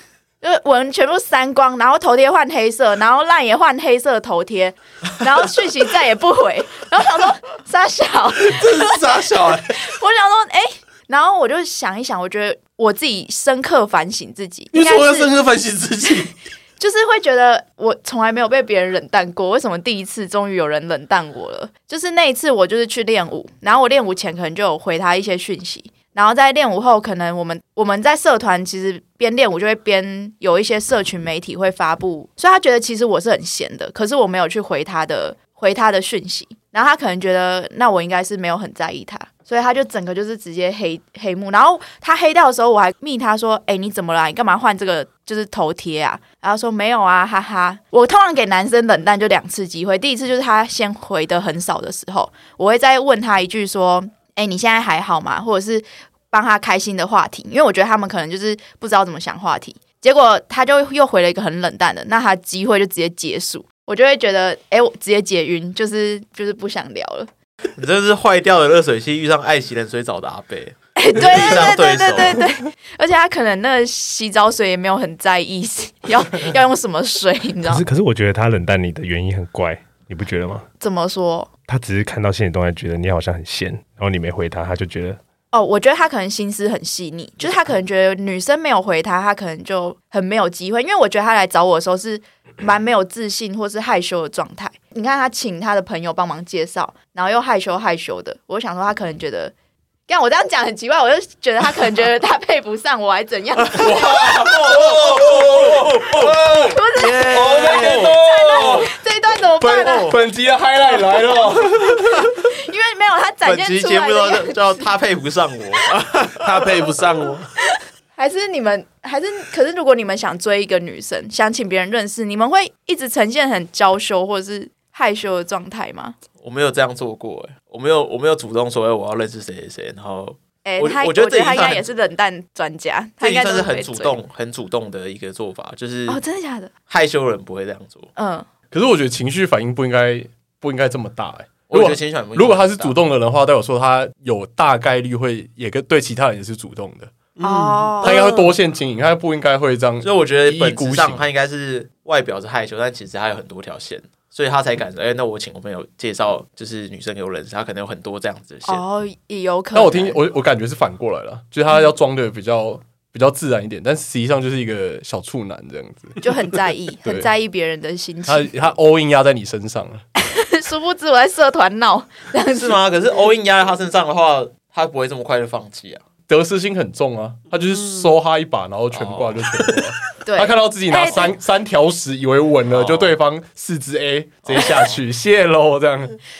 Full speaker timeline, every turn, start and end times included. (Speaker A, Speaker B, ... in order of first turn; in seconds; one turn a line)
Speaker A: 0.4-9.0
Speaker B: 8.4-9.8
Speaker A: 9.7-15.3
Speaker B: 14.7-16.3
Speaker A: 16.8-67.3
Speaker C: 67.8-72.5
Speaker A: 71.0-77.8
Speaker D: 77.6-80.6
Speaker A: 80.8-81.5
Speaker D: 81.7-85.2
Speaker A: 85.5-99.5
Speaker A: 100.1-104.3
Speaker E: 103.8-108.9
Speaker C: 103.8-108.9
Speaker A: 106.7-110.1
Speaker E: 109.6-112.3
Speaker C: 109.8-110.2
Speaker A: 112.4-114.9
Speaker C: 113.4-116.8
Speaker B: 116.4-117.5
Speaker A: 117.6-126.1
Speaker C: 126.4-131.8
Speaker A: 130.6-134.2
Speaker C: 133.2-136.2
Speaker A: 136.1-136.7
Speaker C: 136.9-138.1
Speaker A: 138.2-138.5
Speaker E: 138.7-147.1
Speaker C: 141.7-142.9
Speaker B: 147.4-148.4
Speaker A: 147.4-148.5
Speaker E: 148.0-151.2
Speaker C: 150.0-158.8
Speaker A: 158.6-160.2
Speaker E: 159.7-166.2
Speaker A: 166.2-168.5
Speaker E: 167.0-167.3
Speaker E: 168.2-170.0
Speaker A: 170.2-172.8
Speaker C: 172.5-176.0
Speaker E: 176.3-186.2
Speaker C: 178.9-179.8
Speaker A: 180.2-181.3
Speaker C: 182.7-183.2
Speaker C: 184.4-185.0